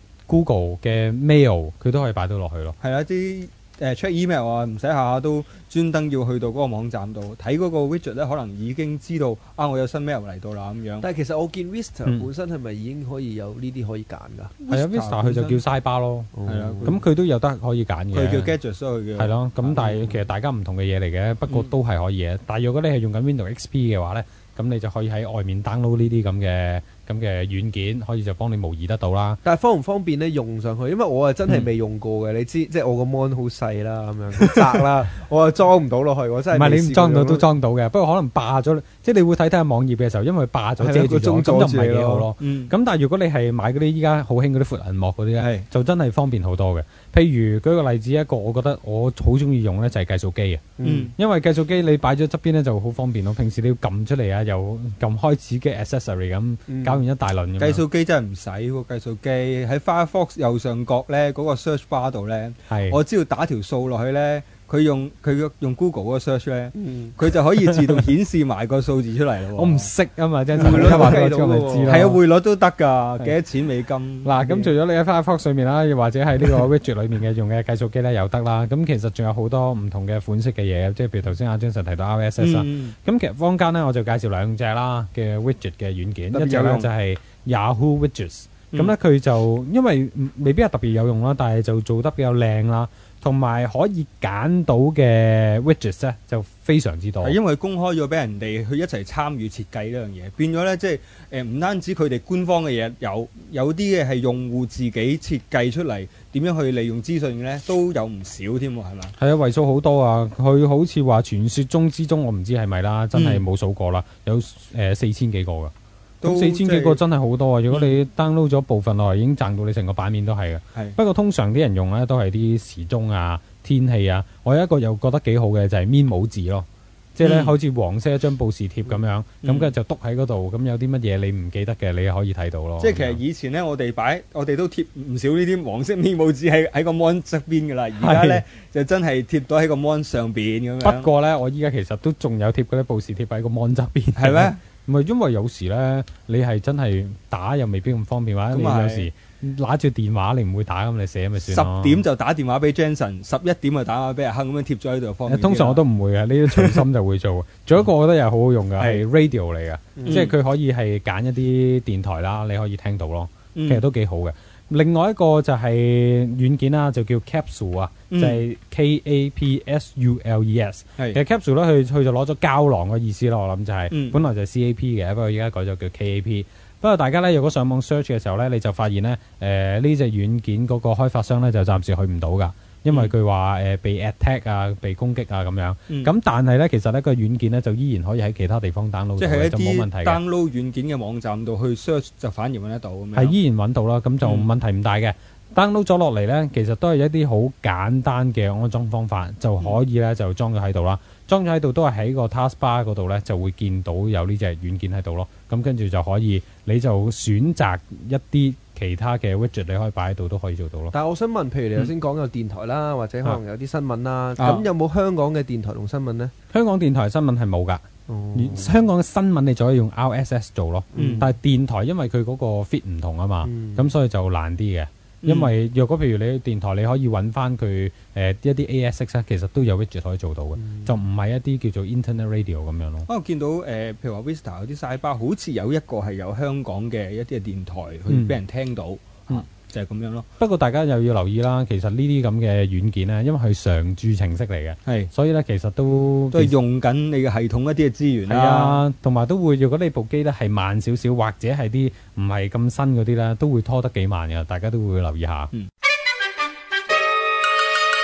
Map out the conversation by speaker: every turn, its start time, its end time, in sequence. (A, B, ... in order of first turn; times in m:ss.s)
0:00.3-0:02.8 A
0:02.8-0:11.0 B
0:11.0-0:14.5 C
0:14.6-0:15.6 B
0:14.7-0:18.5 A
0:16.4-0:17.0 C
0:16.5-0:17.0 B
0:18.1-0:20.0 B
0:19.2-0:29.4 A
0:29.4-0:37.4 C
0:36.5-0:57.8 A
0:40.8-0:42.3 C
0:42.4-0:42.7 B
0:45.4-0:45.6 B
0:50.8-0:51.1 C
0:50.8-0:51.1 B
0:56.7-0:57.0 C
0:57.6-1:09.9 B
1:02.7-1:03.0 A
1:06.8-1:07.1 C
1:09.5-1:12.1 A
1:10.6-1:12.2 C
1:10.6-1:11.1 B
1:11.9-1:14.3 B
1:14.2-1:37.4 A
1:14.4-1:14.7 C
1:22.4-1:22.9 B
1:26.3-1:26.9 B
1:37.2-1:49.1 B
1:49.2-2:13.2 A
1:53.1-1:53.4 B
1:56.2-1:57.0 B
2:07.2-2:07.5 B
2:09.4-2:09.7 B
2:12.8-2:21.1 B
2:18.0-2:18.4 A
2:20.8-2:32.0 A
2:24.2-2:24.6 B
2:28.5-2:29.1 B
2:31.4-2:35.8 B
2:35.3-3:10.2 A
2:36.5-2:36.8 B
2:40.0-2:40.3 C
2:40.0-2:40.3 B
2:43.5-2:43.8 B
2:48.1-2:48.4 B
2:53.9-2:54.2 B
3:09.2-3:13.3 B
3:13.1-3:30.9 A
3:14.2-3:14.5 B
3:30.9-3:36.3 C
3:34.4-3:34.7 B
3:36.5-3:37.8 A
3:38.1-3:38.7 C
3:38.3-3:53.1 A
3:40.9-3:41.3 C
3:41.0-3:41.3 B
3:45.2-3:45.5 B
3:53.1-4:00.2 B
3:58.1-3:58.4 A
4:00.4-4:06.5 A
4:06.3-4:08.8 B
4:08.3-4:15.5 A